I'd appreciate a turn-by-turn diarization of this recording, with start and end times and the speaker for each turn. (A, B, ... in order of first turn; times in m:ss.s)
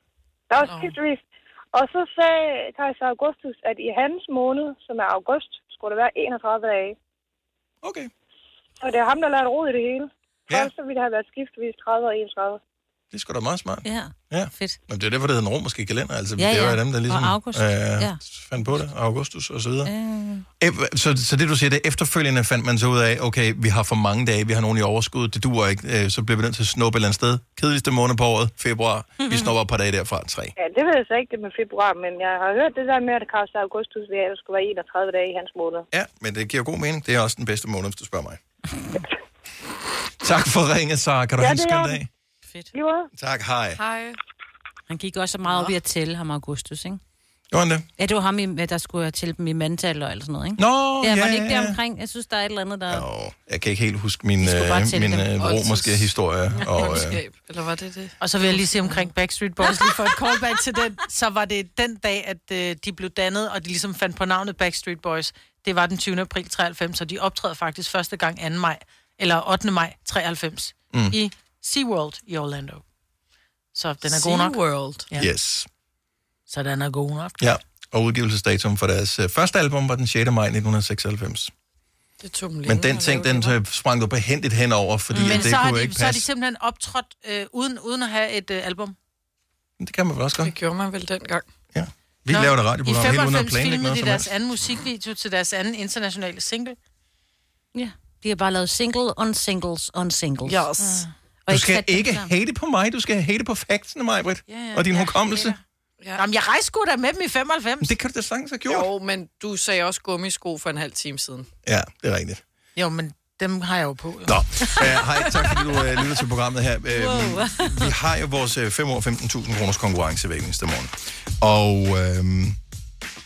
0:00.5-0:07.0 A
0:00.6-0:00.9 B
0:07.8-0:08.1 C
0:08.8-0:12.6 A
0:13.1-0:19.9 C
0:13.8-0:14.8 D
0:16.4-0:18.8 D
0:19.8-0:20.4 D
0:20.6-0:30.5 C
0:29.2-0:29.5 D
0:30.6-0:35.9 A
0:35.9-0:38.4 C
0:40.2-0:42.1 C
0:41.4-0:42.0 A
0:42.7-0:43.1 A
0:43.1-0:43.8 C
0:43.8-0:44.2 B
0:44.9-0:47.0 D
0:45.5-0:45.8 B
0:47.5-0:47.9 C
0:48.0-0:53.0 D
0:50.6-0:51.8 C
0:52.9-0:57.2 C
0:54.4-0:55.3 D
0:55.4-0:59.1 B
0:58.2-1:12.8 E
0:59.6-1:00.4 B
1:10.9-1:11.2 C
1:13.8-1:15.3 E
1:14.0-1:15.1 B
1:15.2-1:15.7 C
1:16.5-1:17.4 E
1:17.4-1:21.5 C
1:22.2-1:23.6 B
1:22.7-1:26.3 C
1:25.1-1:25.6 D
1:25.2-1:29.0 E
1:29.8-1:30.5 C
1:30.4-1:31.5 B
1:31.7-1:34.3 C
1:32.3-1:36.8 E
1:37.8-1:40.6 D
1:40.5-1:41.0 B
1:40.8-1:41.1 E
1:41.5-1:42.3 D
1:41.5-1:45.6 C
1:44.5-1:45.6 E
1:46.0-1:46.3 B
1:46.2-1:47.9 E
1:47.8-1:48.9 C
1:48.7-1:51.5 B
1:51.6-1:52.4 C
1:52.8-1:54.8 E
1:54.3-2:02.6 C
1:56.9-1:57.9 D